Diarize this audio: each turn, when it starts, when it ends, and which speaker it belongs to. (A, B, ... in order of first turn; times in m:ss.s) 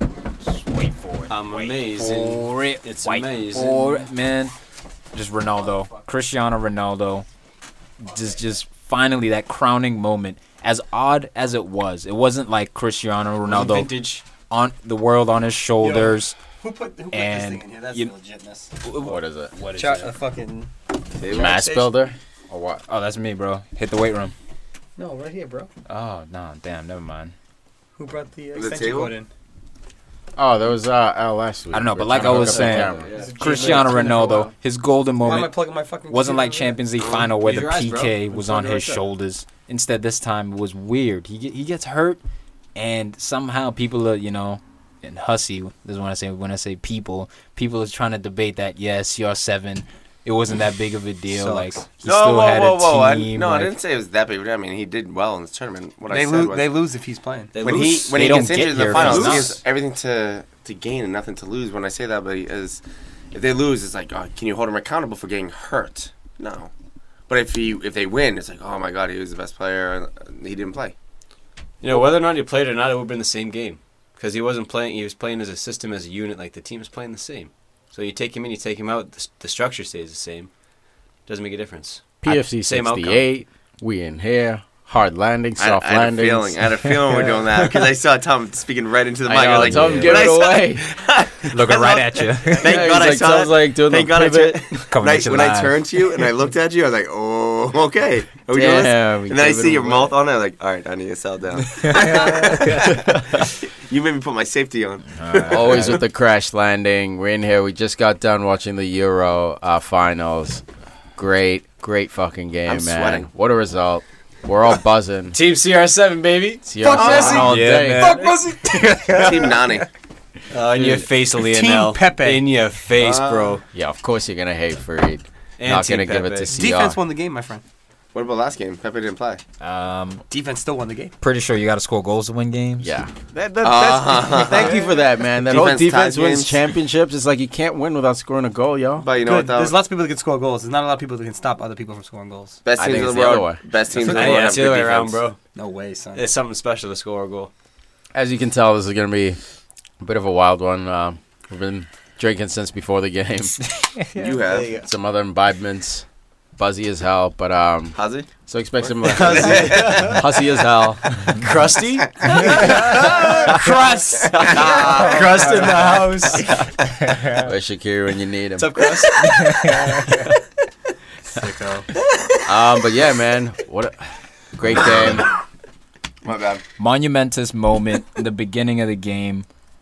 0:00.4-0:04.5 A
0:01.3-0:04.1 B
0:05.1-0:07.3 A
0:08.0-0:13.9 A
0:13.5-0:14.2 B
0:14.5-0:16.4 A
0:15.8-0:18.8 C
0:17.1-0:18.1 A
0:18.8-0:20.1 A
0:19.0-0:19.6 D
0:19.7-0:20.7 C
0:21.2-0:22.8 D
0:21.2-0:21.9 C
0:22.9-0:24.3 A
0:25.0-0:25.7 C
0:25.9-0:27.3 A
0:28.0-0:29.3 C
0:28.6-0:29.1 E
0:30.4-0:33.1 D
0:31.7-0:35.5 A
0:32.1-0:34.5 B
0:33.2-0:34.5 C
0:35.2-0:36.8 C
0:36.1-0:42.2 A
0:37.0-0:37.3 E
0:37.2-0:39.0 B
0:42.8-0:53.8 A
0:51.3-0:51.9 C
0:52.0-0:56.7 E
0:56.1-0:57.6 C
0:57.5-0:58.3 B
0:57.6-1:02.8 E
0:58.1-0:59.6 A
0:58.9-0:59.5 B
1:03.3-1:06.7 E
1:07.3-1:11.0 E
1:11.8-1:20.5 B
1:21.3-1:23.3 B
1:22.2-1:26.8 D
1:25.6-1:46.0 E
1:29.3-1:30.8 D
1:29.3-1:30.3 B
1:31.5-1:32.8 A
1:32.6-1:34.9 D
1:34.9-1:35.8 A
1:38.5-1:40.2 D
1:41.8-1:42.9 A
1:45.2-1:46.0 A
1:45.5-1:50.6 D
1:51.2-1:55.4 D
1:52.7-1:53.3 E
1:55.3-1:58.4 B
1:56.6-1:58.2 D
1:56.8-1:59.6 C
1:56.9-1:59.3 A
1:59.2-1:59.9 E
1:59.2-1:59.5 B
2:00.5-2:03.6 B
2:01.4-2:02.4 C
2:03.0-2:03.6 E
2:03.7-2:07.0 D
2:05.6-2:06.5 B
2:06.5-2:07.6 C
2:08.1-2:09.4 E
2:09.6-2:10.2 A
2:10.3-2:11.1 C
2:11.2-2:12.9 A
2:12.8-2:19.1 D
2:13.6-2:14.8 E
2:15.4-2:16.6 E
2:19.0-2:19.8 E
2:19.2-2:22.6 C
2:22.6-2:25.2 E
2:22.8-2:23.6 D
2:24.0-2:24.5 C
2:24.0-2:25.4 B
2:25.5-2:26.3 C
2:26.2-2:27.5 B
2:28.1-2:29.4 D
2:30.0-2:33.8 D
2:34.1-2:34.8 E
2:34.3-2:34.9 B
2:34.8-2:36.1 D
2:36.6-2:41.5 D
2:38.0-2:38.3 E
2:39.0-2:40.4 B
2:39.1-2:40.2 E
2:41.2-2:43.6 B
2:42.3-2:45.2 C
2:42.3-2:42.7 A
2:44.3-2:46.5 B
2:44.4-2:46.6 E
2:47.0-2:48.8 D
2:47.1-2:47.4 A
2:48.6-2:50.1 B
2:49.2-2:50.1 A
2:51.4-2:51.9 B
2:52.4-2:55.4 D
2:56.2-2:56.6 E
2:56.8-2:59.5 A